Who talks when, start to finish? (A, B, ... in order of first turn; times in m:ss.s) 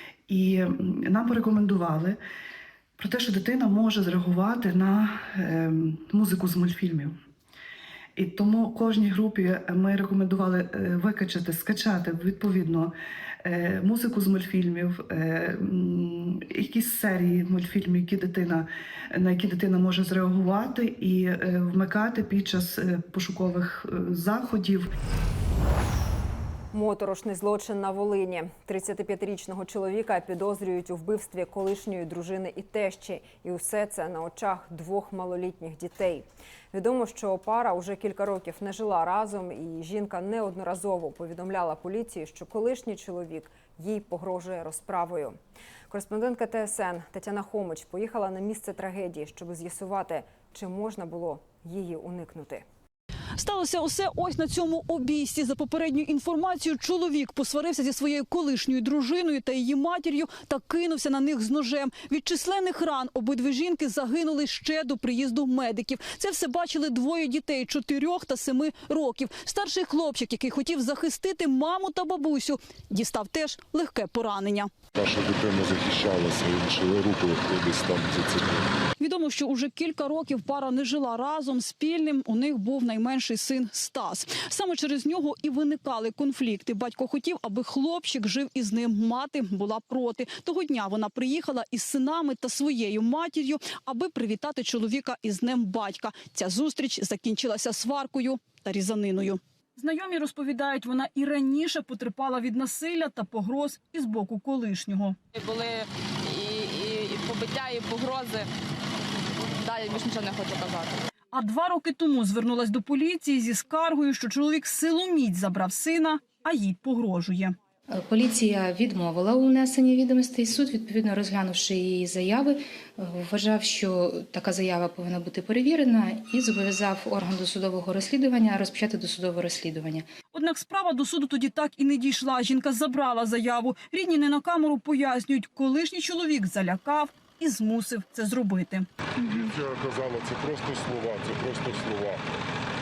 0:00.3-0:02.2 A
0:03.0-0:07.2 A
0:08.2-0:12.9 A
0:13.4-0:24.9 A
0:26.7-0:45.4 B
0:45.9-0:52.6 B
0:53.4-1:14.7 C
1:15.0-1:18.7 D
1:19.0-1:45.2 C
1:45.3-1:48.5 E
1:49.6-1:51.0 E
1:51.3-1:57.6 C
1:57.9-2:10.1 F
2:10.3-2:19.6 C
2:19.3-2:22.2 D